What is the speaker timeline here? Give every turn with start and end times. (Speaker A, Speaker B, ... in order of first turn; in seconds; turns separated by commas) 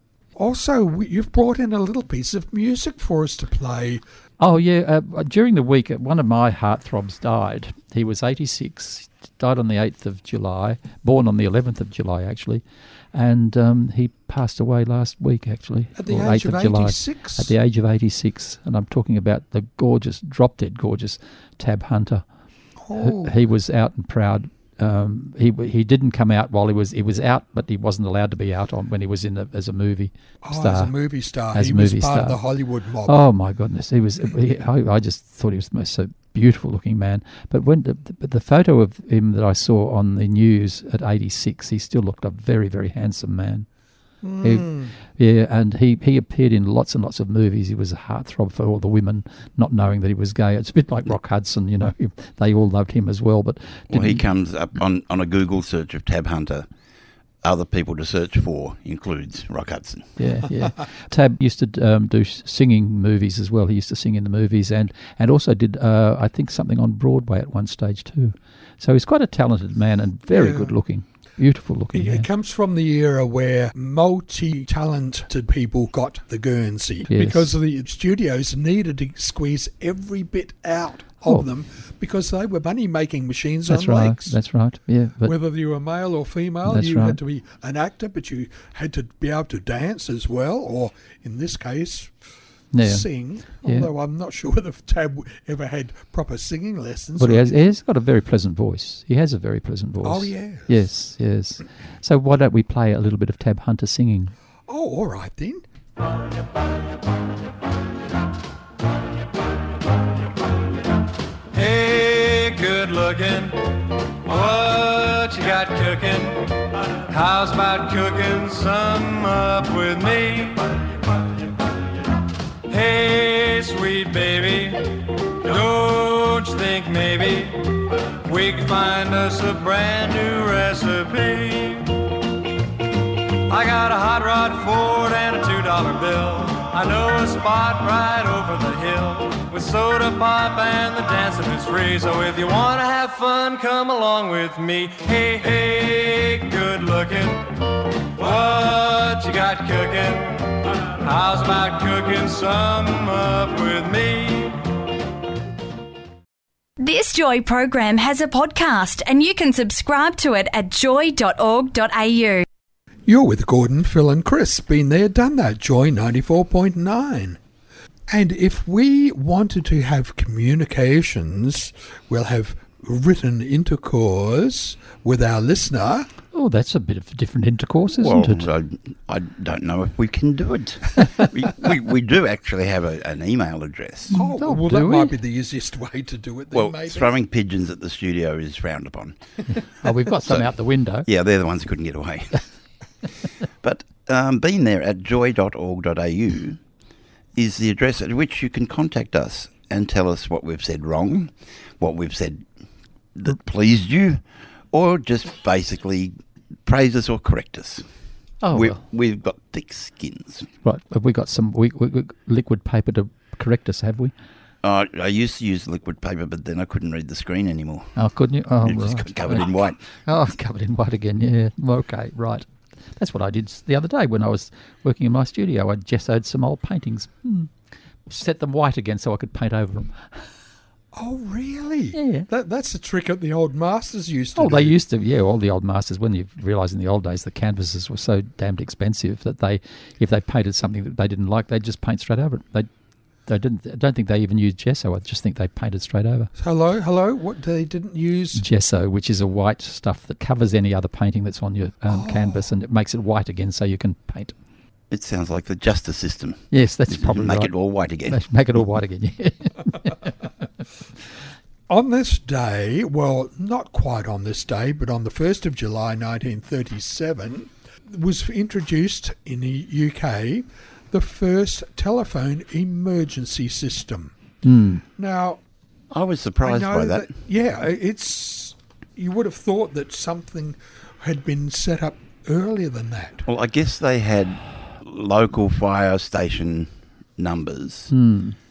Speaker A: 0.3-4.0, Speaker B: 4.4-12.6, Speaker B: 13.1-22.2, Speaker A: 16.0-17.5, Speaker A: 22.8-23.4, Speaker B: 22.9-30.9, Speaker A: 30.4-33.2, Speaker B: 31.5-32.4, Speaker B: 33.1-43.7, Speaker A: 44.2-44.9, Speaker B: 44.4-54.2, Speaker C: 53.9-56.7, Speaker C: 57.4-60.1, Speaker B: 60.2-72.3, Speaker A: 70.3-70.8, Speaker A: 71.9-84.4, Speaker B: 77.1-77.5, Speaker B: 83.7-85.3, Speaker A: 85.2-92.2, Speaker B: 86.7-87.2, Speaker B: 92.7-93.1, Speaker A: 92.8-97.6, Speaker B: 93.6-93.9, Speaker B: 97.2-104.3, Speaker A: 100.0-100.7, Speaker A: 104.7-105.6, Speaker D: 111.5-120.7, Speaker D: 122.7-124.8, Speaker D: 125.4-131.9, Speaker D: 133.5-147.4, Speaker D: 148.2-154.6, Speaker E: 156.8-162.4, Speaker A: 163.1-167.4, Speaker A: 168.1-176.1, Speaker B: 176.3-178.5, Speaker C: 178.0-184.2, Speaker B: 184.1-185.1, Speaker A: 184.1-187.1, Speaker C: 186.5-189.2, Speaker B: 189.8-191.1, Speaker C: 190.2-190.5, Speaker C: 191.1-192.4, Speaker C: 193.6-196.6, Speaker C: 197.3-202.4, Speaker C: 203.2-206.2, Speaker C: 206.7-207.8, Speaker B: 208.4-208.8, Speaker C: 208.5-210.5, Speaker B: 210.6-214.1, Speaker C: 214.6-217.9, Speaker B: 218.0-227.5, Speaker C: 218.6-219.8, Speaker B: 228.1-230.1, Speaker A: 230.9-234.8, Speaker B: 231.9-232.3, Speaker B: 234.4-242.7, Speaker B: 243.3-246.3, Speaker A: 246.4-248.4, Speaker B: 248.4-254.3, Speaker A: 251.9-252.5, Speaker C: 254.9-258.2, Speaker B: 256.5-257.5, Speaker B: 258.1-260.1, Speaker A: 261.7-274.1, Speaker B: 274.4-274.8, Speaker A: 275.0-275.4, Speaker C: 275.9-277.1, Speaker A: 276.4-283.3, Speaker C: 283.3-287.9, Speaker B: 287.9-288.4